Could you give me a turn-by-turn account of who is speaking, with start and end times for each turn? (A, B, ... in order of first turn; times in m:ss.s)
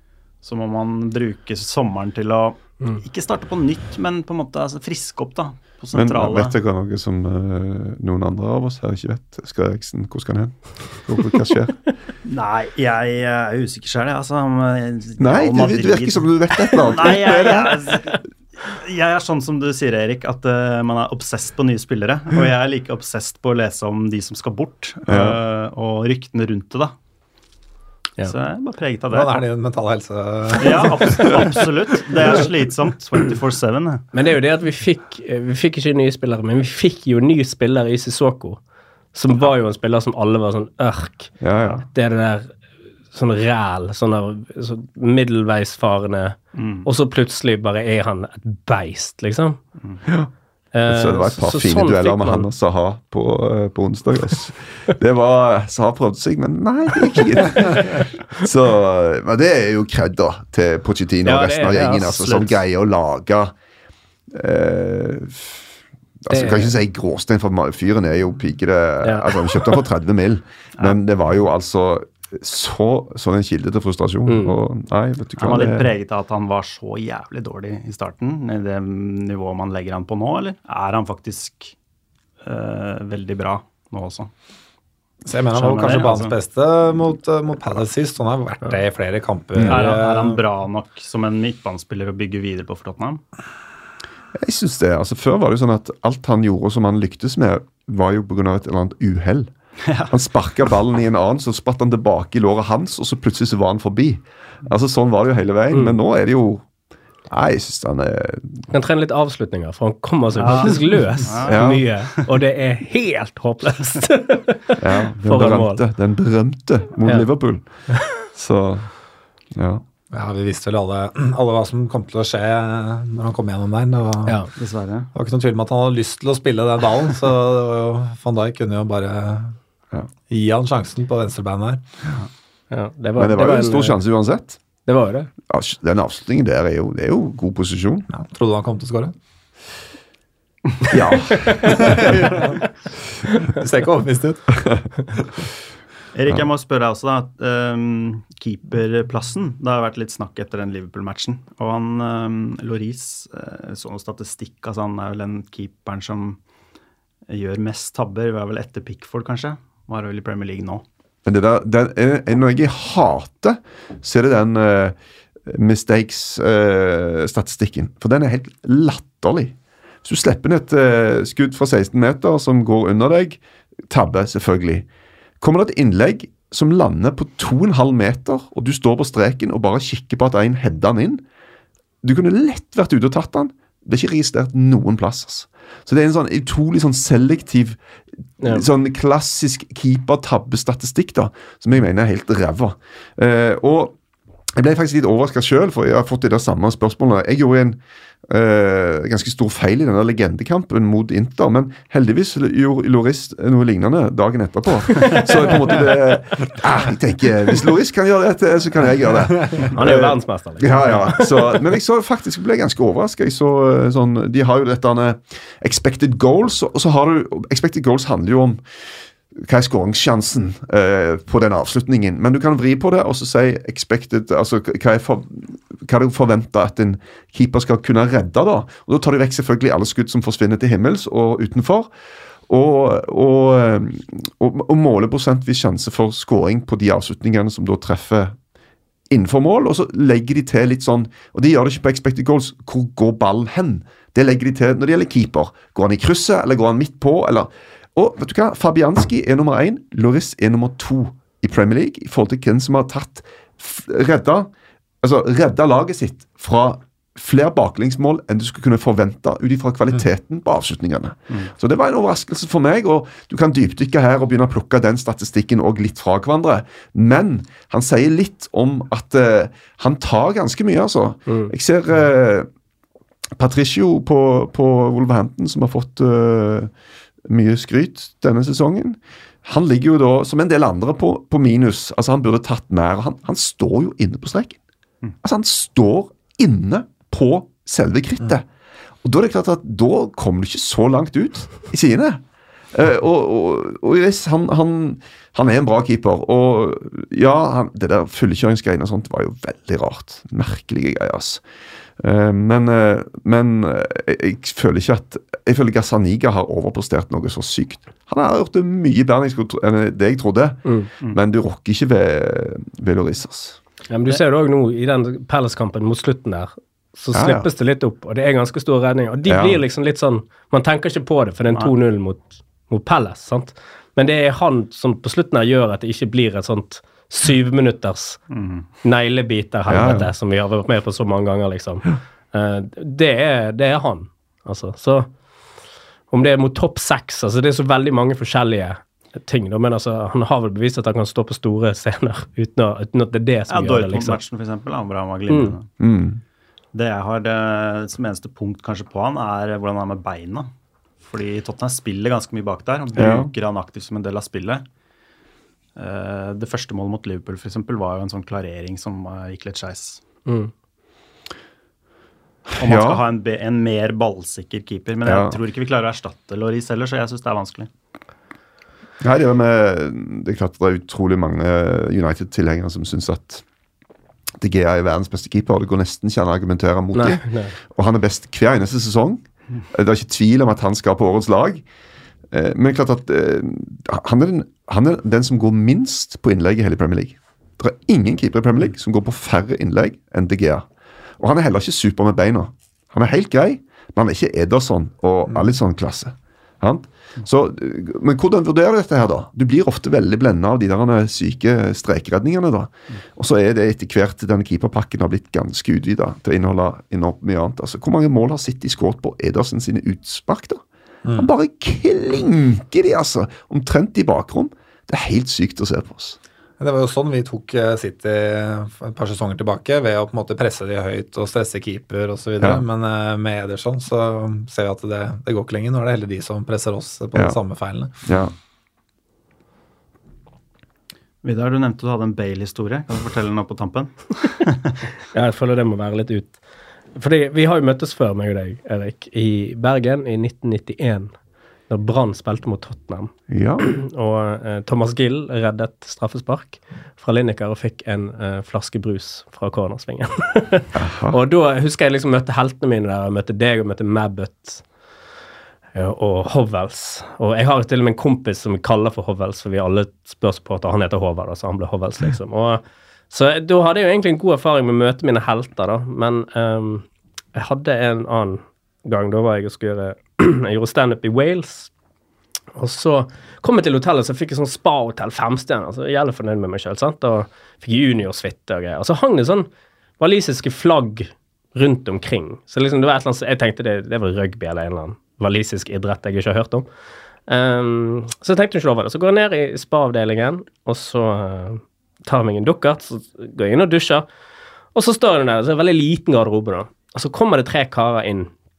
0:00.4-0:06.6 A
0:05.9-0:11.8 B
0:12.2-0:26.9 A
0:15.2-0:17.8 B
0:16.8-0:17.5 C
0:25.1-0:25.4 B
0:28.2-0:29.4 A
0:29.1-0:31.4 D
0:30.6-0:34.1 A
0:34.1-0:38.6 C
0:39.1-0:42.5 C
0:41.4-0:41.9 B
0:43.1-0:49.6 C
0:46.6-0:46.9 A
0:50.7-0:52.5 C
0:50.9-1:03.5 B
1:01.2-1:02.1 C
1:02.0-1:02.6 A
1:04.3-1:05.7 B
1:06.2-1:15.9 B
1:06.3-1:06.7 C
1:09.0-1:09.8 C
1:14.3-1:14.6 C
1:15.4-1:21.8 A
1:22.4-1:24.3 A
1:25.2-1:30.4 D
1:25.5-1:26.4 A
1:29.6-1:29.8 B
1:29.6-1:33.2 A
1:34.4-1:39.5 B
1:39.8-1:40.1 A
1:40.1-1:46.7 B
1:45.7-1:46.0 C
1:47.3-1:48.7 B
1:48.7-1:55.8 C
1:50.4-1:52.4 A
1:51.5-1:51.8 B
1:54.8-1:57.6 B
1:58.2-1:58.9 B
1:59.5-1:59.8 B
2:00.1-2:04.4 D
2:04.6-2:05.1 A
2:05.1-2:09.6 D
2:10.3-2:11.8 D
2:12.7-2:14.0 C
2:13.2-2:14.6 B
2:14.9-2:15.3 C
2:15.5-2:18.1 B
2:18.1-2:19.2 D
2:20.9-2:22.3 B
2:21.5-2:22.1 C
2:21.8-2:22.4 D
2:23.6-2:24.6 D
2:26.1-2:36.4 A
2:37.3-2:40.8 A
2:41.2-2:45.0 B
2:45.5-2:54.9 B
2:55.4-3:01.2 B
3:02.0-3:07.8 B
3:08.4-3:14.0 B
3:14.6-3:38.6 B
3:29.7-3:31.6 C
3:39.3-3:51.9 B
3:52.5-3:58.4 B
3:59.1-4:14.5 B
4:15.0-4:32.5 B
4:31.3-4:31.5 C
4:33.4-4:36.7 B
4:37.3-4:44.6 B
4:45.2-4:48.4 B
4:49.0-4:52.2 B
4:52.7-5:01.4 B
5:02.0-5:13.6 B
5:10.6-5:10.9 C
5:13.9-5:28.2 C
5:17.1-5:17.5 B
5:19.2-5:19.6 B
5:28.3-5:28.7 A
5:28.8-5:35.1 C
5:29.7-5:30.1 B
5:36.1-5:44.2 C
5:43.5-5:45.7 A
5:45.3-5:45.6 C
5:45.8-5:46.2 B
5:46.7-5:50.5 A
5:51.0-5:54.6 A
5:53.0-5:53.3 B
5:55.8-6:00.0 A
6:00.3-6:00.5 C
6:02.5-6:03.0 B
6:02.6-6:07.7 A
6:05.0-6:05.4 B
6:09.0-6:13.4 B
6:14.4-6:21.6 B
6:17.0-6:17.6 C
6:22.3-6:30.6 B
6:31.2-6:50.6 B
6:51.0-6:51.3 D
6:51.2-6:56.2 B
6:56.6-7:07.9 D
7:08.0-7:08.3 B
7:11.2-7:14.8 A
7:15.1-7:16.4 C
7:17.0-7:21.2 C
7:21.7-7:34.6 C
7:23.3-7:23.7 B
7:30.7-7:31.2 B
7:35.8-7:51.7 C
7:52.6-8:06.7 C
8:07.3-8:14.1 C
8:14.7-8:18.3 C